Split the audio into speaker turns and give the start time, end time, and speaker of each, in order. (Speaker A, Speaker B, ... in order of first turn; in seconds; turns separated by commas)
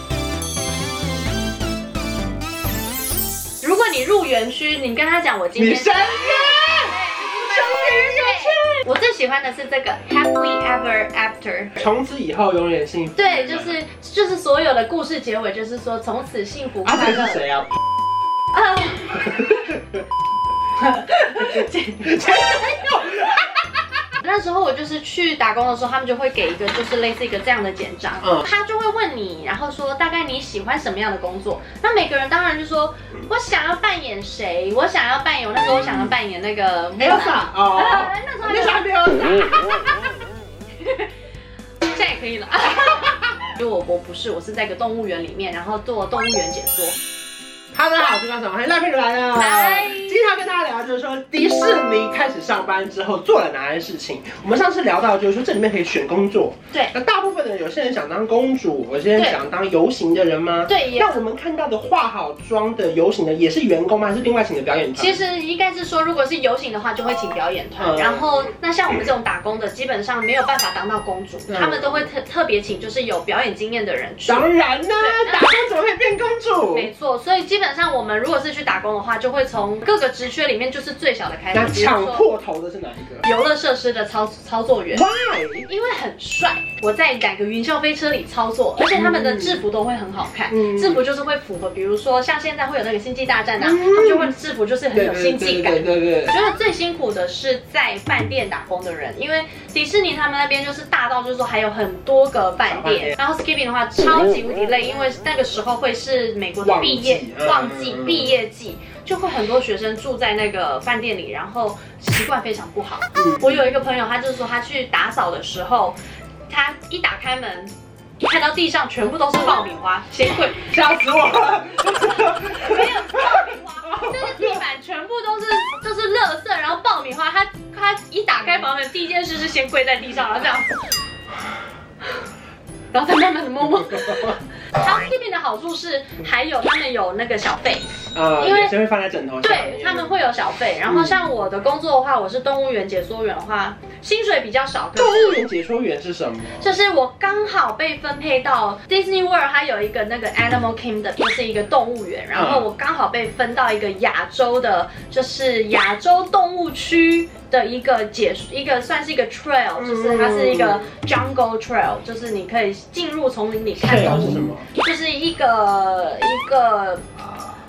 Speaker A: 3.6-11.8, Speaker B: 5.5-8.8, Speaker B: 11.8-13.8, Speaker A: 13.2-17.4, Speaker B: 16.8-17.7, Speaker A: 18.5-19.7, Speaker B: 19.2-20.0, Speaker A: 20.7-23.0, Speaker B: 21.4-23.8, Speaker A: 24.2-38.9, Speaker B: 35.6-36.1, Speaker B: 37.0-40.1, Speaker A: 40.8-41.1, Speaker A: 41.9-47.0, Speaker B: 42.8-43.1, Speaker B: 47.7-65.2, Speaker A: 49.3-50.1, Speaker A: 60.7-61.2, Speaker A: 65.0-75.7, Speaker B: 67.8-68.3, Speaker B: 71.5-72.1, Speaker B: 74.2-76.9, Speaker A: 76.7-82.2, Speaker B: 81.5-83.3, Speaker A: 83.2-85.1, Speaker B: 84.9-85.7, Speaker A: 85.7-116.0, Speaker B: 88.9-89.6, Speaker B: 90.5-91.0, Speaker B: 93.6-94.4, Speaker B: 94.9-96.3, Speaker B: 102.7-103.2, Speaker B: 106.6-108.4, Speaker B: 113.1-113.7, Speaker A: 116.5-120.7, Speaker B: 120.7-124.6, Speaker A: 121.8-130.7, Speaker A: 132.9-138.7, Speaker B: 138.1-140.2, Speaker A: 139.4-145.4, Speaker B: 140.9-141.2, Speaker B: 145.0-146.7, Speaker A: 146.6-167.2, Speaker B: 152.3-152.7, Speaker B: 159.8-160.9, Speaker B: 163.8-164.7